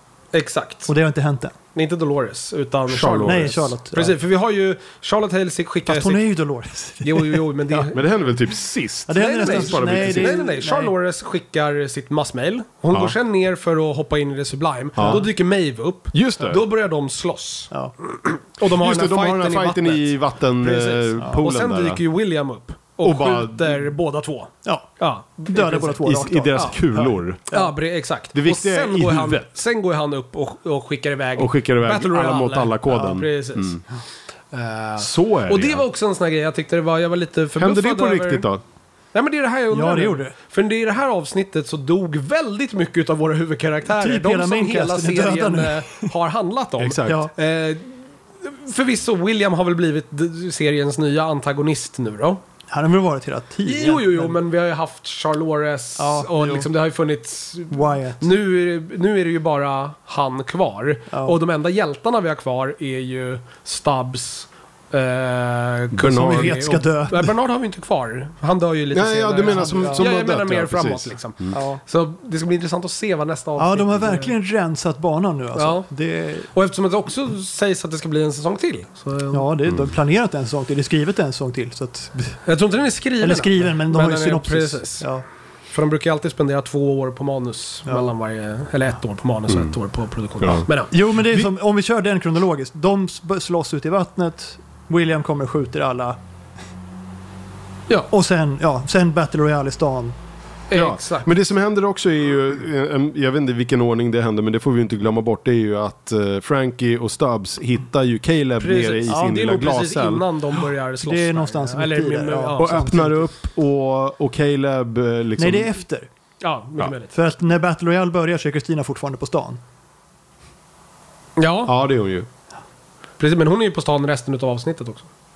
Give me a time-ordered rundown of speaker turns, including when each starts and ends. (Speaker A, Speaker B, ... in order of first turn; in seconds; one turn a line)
Speaker A: 0.3-0.9
Speaker B: 0.8-1.5
Speaker A: 1.7-6.3
Speaker C: 2.9-3.7
Speaker B: 3.2-4.2
Speaker B: 5.9-7.9
Speaker A: 7.0-8.1
Speaker C: 7.9-10.4
Speaker B: 9.1-10.9
Speaker A: 9.2-25.9
Speaker C: 14.9-15.3
Speaker C: 16.1-16.6
Speaker C: 18.6-22.0
Speaker C: 23.0-23.9
Speaker B: 24.6-27.7
Speaker C: 25.8-27.5
Speaker A: 27.5-33.8
Speaker C: 28.3-29.5
Speaker C: 31.4-33.8
Speaker A: 34.5-38.5
Speaker C: 35.0-35.8
Speaker C: 37.5-38.6
Speaker A: 39.1-52.4
Speaker B: 39.7-40.3
Speaker B: 43.9-46.1
Speaker C: 46.8-47.2
Speaker B: 47.0-47.3
Speaker B: 52.7-54.4
Speaker A: 53.6-74.3
Speaker B: 56.0-56.7
Speaker B: 57.7-58.3
Speaker B: 61.1-61.4
Speaker C: 65.9-66.6
Speaker B: 66.0-67.3
Speaker C: 68.9-71.5
Speaker B: 69.4-70.0
Speaker B: 71.5-71.8
Speaker B: 73.6-76.5
Speaker A: 75.5-75.9
Speaker A: 76.5-79.5
Speaker B: 79.3-82.4
Speaker A: 82.4-85.0
Speaker B: 83.2-85.2
Speaker A: 85.7-90.9
Speaker B: 87.8-88.1
Speaker C: 90.4-90.7
Speaker B: 90.9-96.2
Speaker B: 98.1-100.2
Speaker A: 100.7-101.3
Speaker C: 100.7-110.2
Speaker A: 108.6-113.0
Speaker B: 109.1-109.3
Speaker B: 111.0-113.2
Speaker C: 112.6-115.7
Speaker B: 115.4-116.1
Speaker A: 116.4-117.1
Speaker B: 117.1-119.6
Speaker A: 121.4-121.7
Speaker C: 121.7-122.3
Speaker A: 123.2-125.1